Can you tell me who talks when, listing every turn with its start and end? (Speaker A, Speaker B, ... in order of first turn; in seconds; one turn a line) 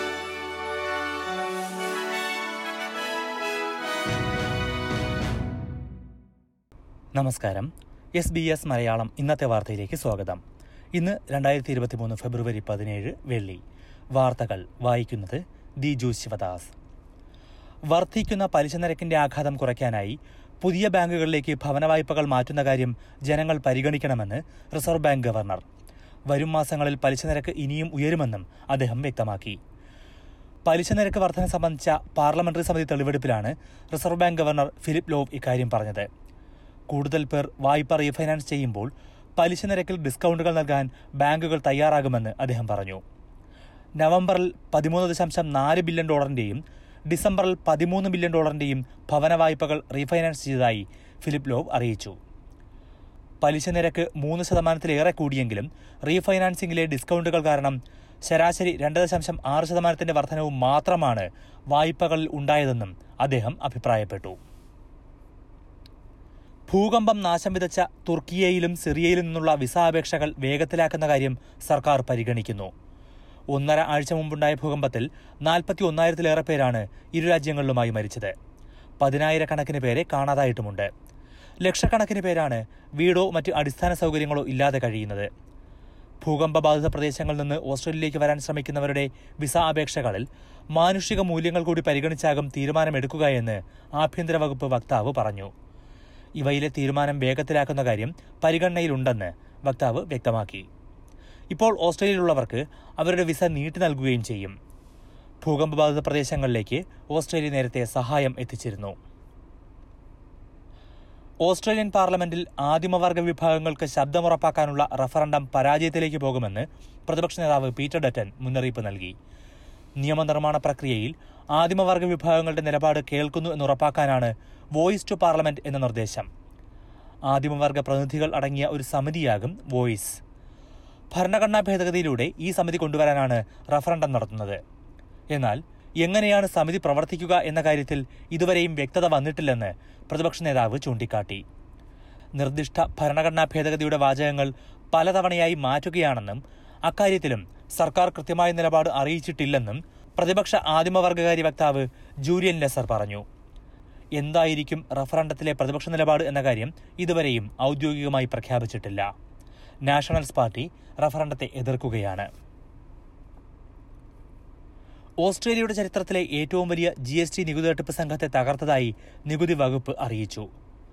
Speaker A: 7.2-10.4
Speaker A: 10.9-13.6
Speaker A: 14.2-16.7
Speaker A: 17.9-25.6
Speaker A: 26.3-29.6
Speaker A: 30.7-36.1
Speaker A: 36.9-43.0
Speaker A: 44.0-52.2
Speaker A: 53.4-64.4
Speaker A: 66.7-72.7
Speaker A: 73.5-78.3
Speaker A: 79.0-80.9
Speaker A: 81.6-85.3
Speaker A: 86.2-95.5
Speaker A: 96.4-100.7
Speaker A: 101.5-104.5
Speaker A: 105.4-109.0
Speaker A: 111.5-119.2
Speaker A: 120.0-126.3
Speaker A: 127.3-130.2
Speaker A: 131.1-134.6
Speaker A: 135.3-141.4
Speaker A: 142.4-153.2
Speaker A: 154.2-159.1
Speaker A: 159.8-162.3
Speaker A: 165.2-170.5